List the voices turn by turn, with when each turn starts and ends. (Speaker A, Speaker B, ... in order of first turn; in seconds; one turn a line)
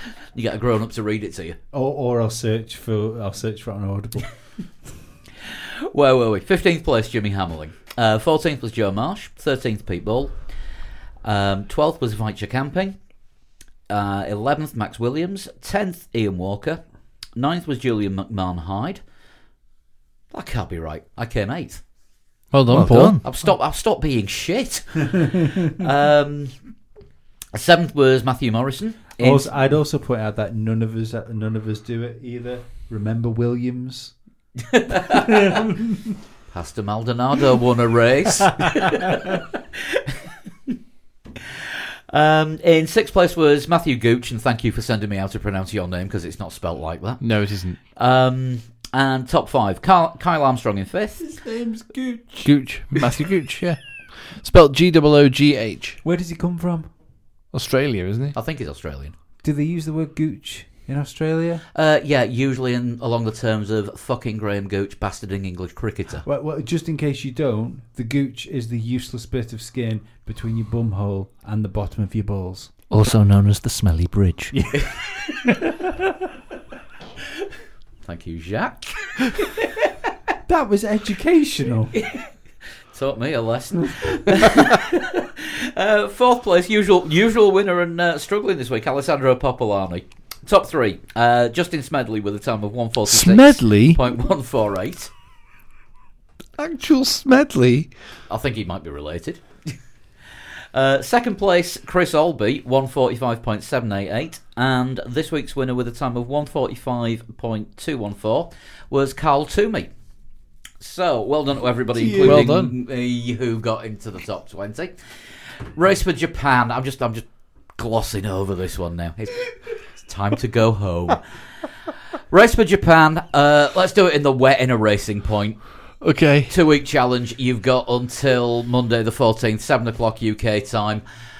Speaker A: 0.3-1.6
Speaker B: 1.7-4.3
Speaker A: 5.8-10.4
Speaker A: 11.2-13.0
Speaker A: 13.9-16.8
Speaker A: 17.3-19.0
Speaker A: 20.3-21.8
Speaker C: 22.5-23.2
Speaker D: 22.7-23.2
Speaker A: 22.9-26.6
Speaker A: 27.5-29.5
Speaker B: 29.2-34.1
Speaker A: 34.7-35.5
Speaker B: 35.1-36.0
Speaker A: 36.5-40.1
Speaker A: 41.4-51.2
Speaker C: 47.2-47.8
Speaker B: 51.2-52.5
Speaker C: 52.4-56.0
Speaker B: 56.0-56.9
Speaker C: 57.5-58.3
Speaker A: 58.3-59.1
Speaker B: 59.4-61.6
Speaker A: 61.7-66.2
Speaker B: 66.2-72.7
Speaker D: 72.9-74.6
Speaker B: 74.5-75.9
Speaker A: 78.0-79.7
Speaker B: 80.5-81.9
Speaker A: 81.9-82.3
Speaker A: 82.9-95.1
Speaker C: 93.1-94.0
Speaker C: 96.6-97.9
Speaker A: 98.3-99.7
Speaker A: 100.7-109.9
Speaker A: 110.8-121.7
Speaker B: 111.9-112.5
Speaker C: 112.2-112.7
Speaker A: 122.3-131.0
Speaker C: 126.0-126.5